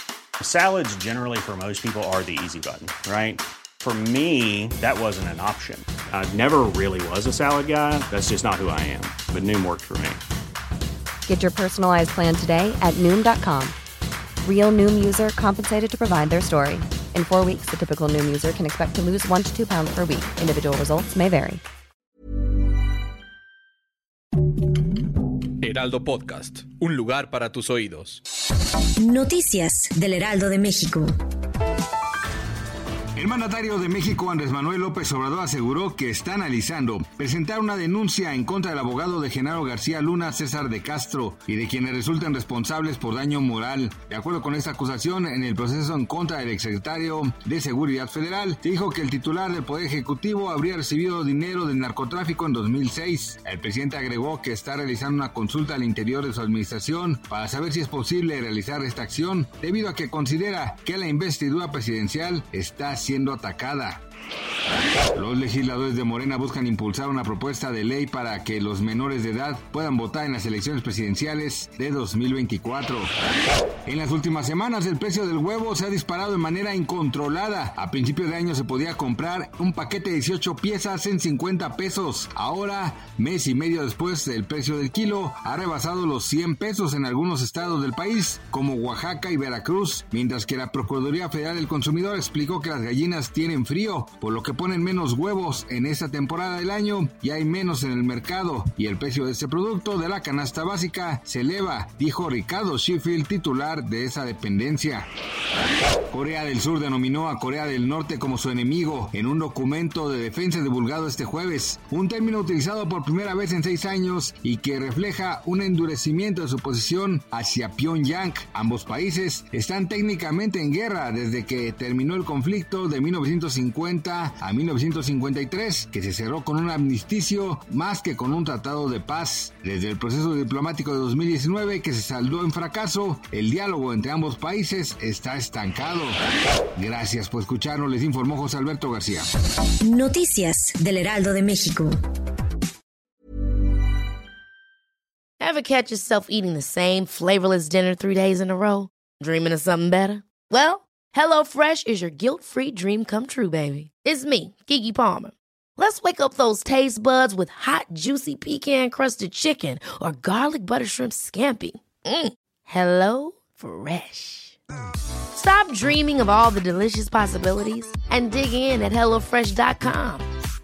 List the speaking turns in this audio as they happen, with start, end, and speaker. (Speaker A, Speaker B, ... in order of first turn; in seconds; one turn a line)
Speaker A: 0.4-10.2
Speaker B: 11.3-13.8
Speaker B: 14.4-21.6
Speaker C: 25.6-28.2
Speaker D: 29.0-31.1
Speaker E: 33.2-64.0
Speaker E: 65.2-73.1
Speaker E: 73.9-105.1
Speaker E: 106.1-136.2
Speaker E: 136.8-139.3
Speaker D: 139.7-142.0
Speaker F: 145.4-164.6
Speaker F: 165.3-170.3